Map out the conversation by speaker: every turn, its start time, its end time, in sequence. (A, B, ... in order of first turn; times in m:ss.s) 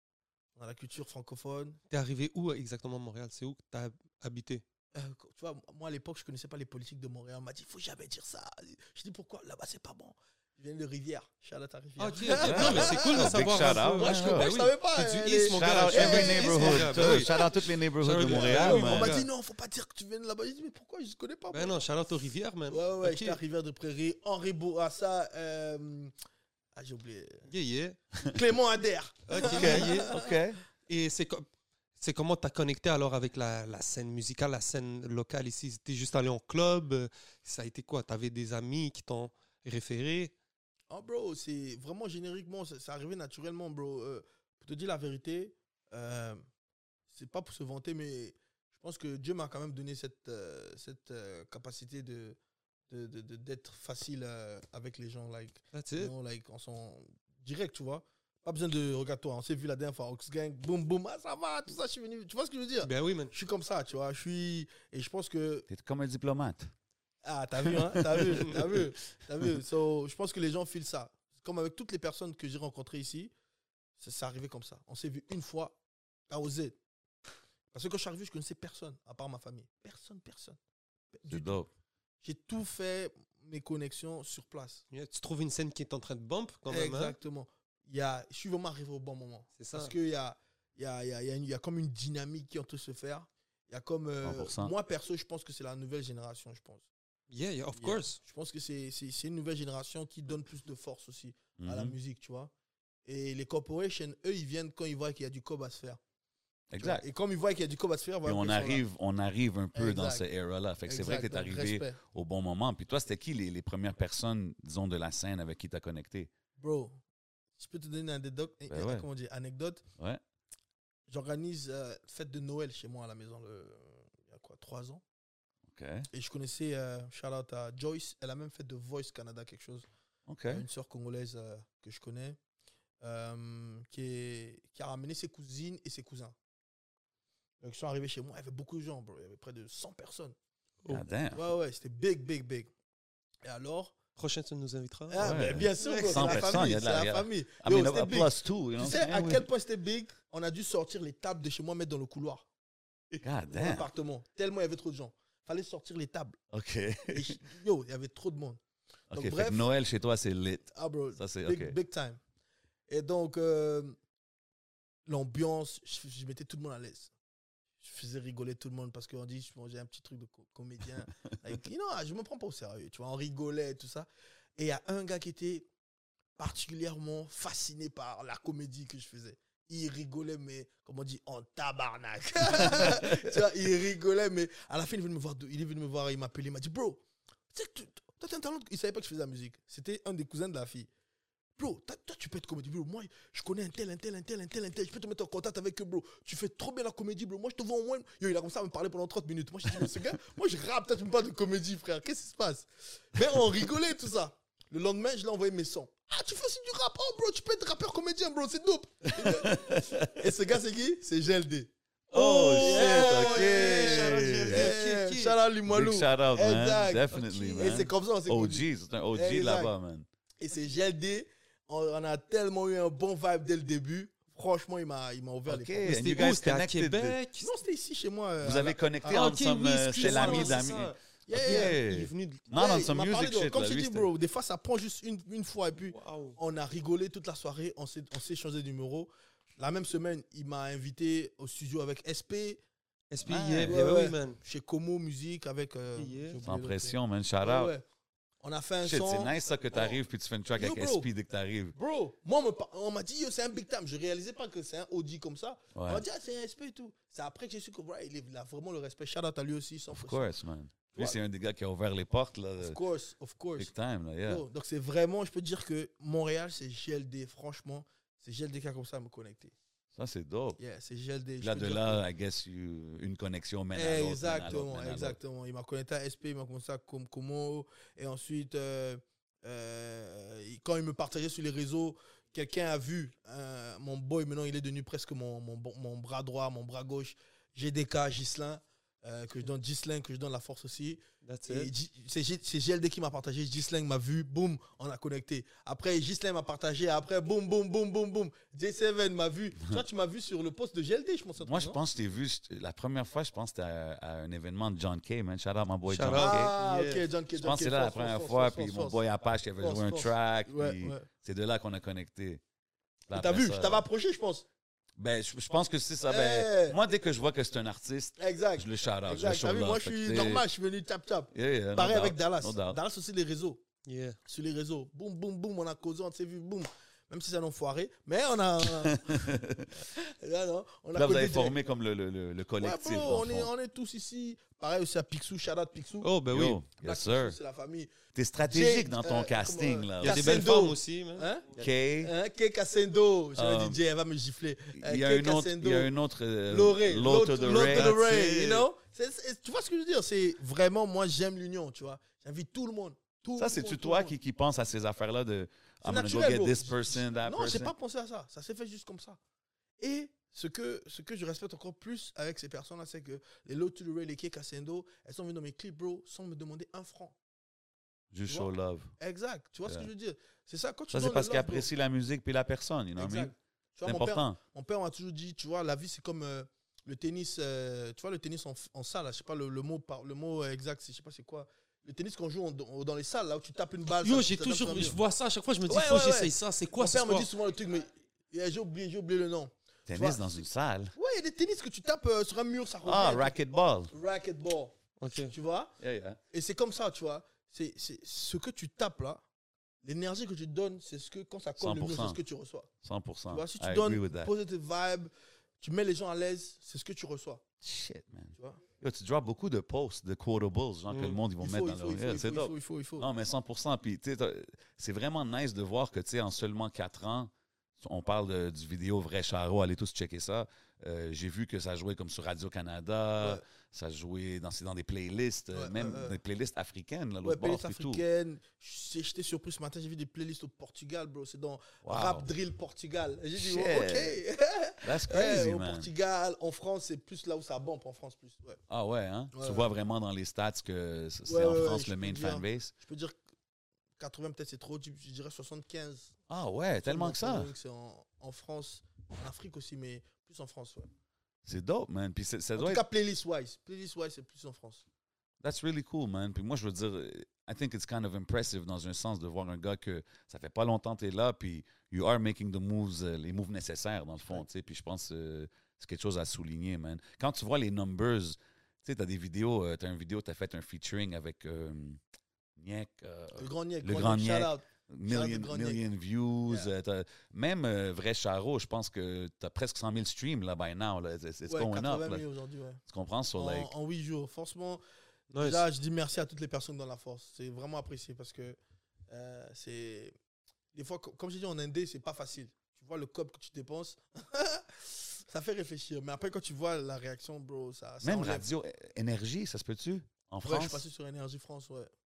0:00.6-0:01.8 A
0:01.9-0:04.6 B
0:04.9-0:26.1 A
0:12.0-0:17.4 B
0:12.4-0:14.6 C
0:15.5-0:19.2 C
0:18.0-0:19.3 B
0:21.5-0:23.4 B
0:26.8-0:27.5 A
0:27.5-0:28.0 B
0:28.2-0:30.4 A
0:29.3-0:30.1 B
0:29.4-0:30.6 C
0:30.9-0:31.4 B
0:32.0-0:40.3 B
0:40.9-0:46.4 A
0:47.1-0:52.4 A
0:52.9-1:05.7 A
0:55.7-0:56.1 B
1:02.8-1:03.3 B
1:05.7-1:06.7 C
1:07.2-1:13.3 A
1:07.8-1:08.8 C
1:14.0-1:15.8 A
1:16.3-1:16.8 A
1:17.7-1:20.6 A
1:21.1-1:21.6 A
1:21.3-1:21.7 C
1:22.2-1:24.8 A
1:24.9-1:27.2 B
1:26.7-1:36.8 A
1:29.6-1:29.9 B
1:34.2-1:34.7 C
1:37.3-1:38.2 B
1:37.8-1:42.5 A
1:41.6-1:41.9 C
1:43.0-1:46.0 A
1:46.7-1:47.0 C
1:46.8-1:48.8 A
1:48.2-1:56.3 C
1:49.7-1:50.2 A
1:50.8-1:52.0 A
1:56.6-1:57.0 A
1:57.6-1:59.8 A
1:58.7-1:59.0 C
2:01.1-2:05.0 A
2:05.7-2:06.1 C
2:06.1-2:09.8 A
2:10.3-2:10.6 C
2:10.5-2:12.4 A
2:13.0-2:16.4 A
2:17.6-2:20.3 A
2:20.9-2:21.4 C
2:21.3-2:22.7 A
2:23.4-2:24.0 A
2:24.2-2:26.7 B
2:25.1-2:32.4 A
2:25.2-2:29.5 C
2:33.2-2:33.9 C
2:33.5-2:36.4 A
2:36.5-2:37.4 C
2:37.1-2:38.6 A
2:39.1-2:41.7 C
2:39.1-2:39.7 A
2:40.7-2:42.2 A
2:42.9-2:44.0 A
2:45.1-2:47.1 A
2:47.8-2:55.6 A
2:56.4-3:10.9 A
3:02.5-3:03.4 C
3:11.6-3:39.7 A
3:29.2-3:30.2 C
3:32.1-3:34.7 C
3:32.4-3:35.4 B
3:35.6-3:40.0 C
3:37.1-3:37.9 B
3:40.4-3:46.0 A
3:45.5-3:47.2 C
3:45.8-3:47.5 B
3:47.4-3:49.3 A
3:48.4-3:54.1 C
3:49.1-3:52.4 B
3:50.0-3:51.8 A
3:52.5-4:02.6 A
3:55.8-3:56.4 B
4:03.1-4:04.4 B
4:03.2-4:03.8 C
4:03.6-4:07.8 A
4:06.0-4:06.4 B
4:06.4-4:07.7 C
4:08.4-4:10.0 A
4:08.8-4:11.8 C
4:10.6-4:11.1 A
4:11.8-4:20.3 A
4:15.7-4:16.0 C
4:19.9-4:22.8 C
4:20.9-4:21.2 A
4:22.6-4:23.7 A
4:23.6-4:24.4 C
4:24.3-4:29.5 A
4:29.9-4:30.6 C
4:30.6-4:32.0 A
4:31.4-4:35.2 C
4:33.7-5:01.8 A
4:51.2-4:51.7 B
5:01.4-5:06.5 C
5:05.9-5:07.0 B
5:06.1-5:09.0 A
5:07.4-5:12.4 C
5:09.6-5:11.1 A
5:13.1-5:13.8 C
5:13.1-5:14.4 A
5:15.0-5:20.4 C
5:16.0-5:16.8 A
5:18.2-5:23.6 A
5:21.3-5:22.8 C
5:23.8-5:24.2 B
5:24.2-5:29.3 A
5:28.6-5:29.7 C
5:29.8-5:31.6 A
5:30.9-5:33.5 C
5:32.6-5:36.1 A
5:36.0-5:36.6 B
5:36.3-5:37.4 C
5:36.8-5:37.9 A
5:38.1-5:40.5 C
5:38.4-5:41.5 A
5:40.0-5:41.6 B
5:41.6-5:42.1 C
5:42.0-5:45.9 A
5:43.4-5:43.8 C
5:44.8-5:48.2 C
5:46.5-5:54.1 A
5:47.5-5:48.6 B
5:53.4-5:57.7 C
5:55.8-5:59.2 A
5:59.8-6:07.2 A
6:08.1-6:08.9 C
6:08.3-6:11.7 A
6:10.9-6:13.3 C
6:13.0-6:25.0 A
6:13.8-6:14.4 C
6:23.9-6:27.3 B
6:25.7-6:30.4 A
6:29.9-6:30.9 C
6:30.9-6:34.8 A
6:32.8-6:33.9 C
6:35.0-6:35.3 B
6:35.3-6:35.7 A
6:35.8-6:36.2 C
6:36.3-6:39.2 A
6:39.8-6:42.7 A
6:41.6-6:42.2 C
6:42.8-6:44.3 C
6:43.3-6:47.4 A
6:47.6-7:08.0 C
6:48.4-6:48.6 A
6:50.9-6:51.2 B
6:51.4-6:53.1 A
7:05.5-7:06.2 A
7:07.2-7:18.6 A
7:11.8-7:12.3 C
7:13.4-7:14.1 C
7:14.8-7:15.9 C
7:18.7-7:22.7 C
7:19.3-7:19.7 A
7:21.2-7:23.2 A
7:24.0-7:26.2 A
7:26.3-7:27.5 C
7:26.8-7:30.9 A
7:31.4-7:32.8 C
7:32.6-7:34.8 A
7:35.4-7:52.0 C
7:52.6-8:02.2 C
7:53.4-7:55.8 A
8:01.5-8:02.8 A
8:02.9-8:03.7 C
8:03.4-8:04.8 A
8:05.3-8:05.6 B
8:05.4-8:08.6 A
8:09.1-8:10.1 A
8:10.7-8:18.5 A
8:18.0-8:20.8 C
8:20.4-8:21.9 A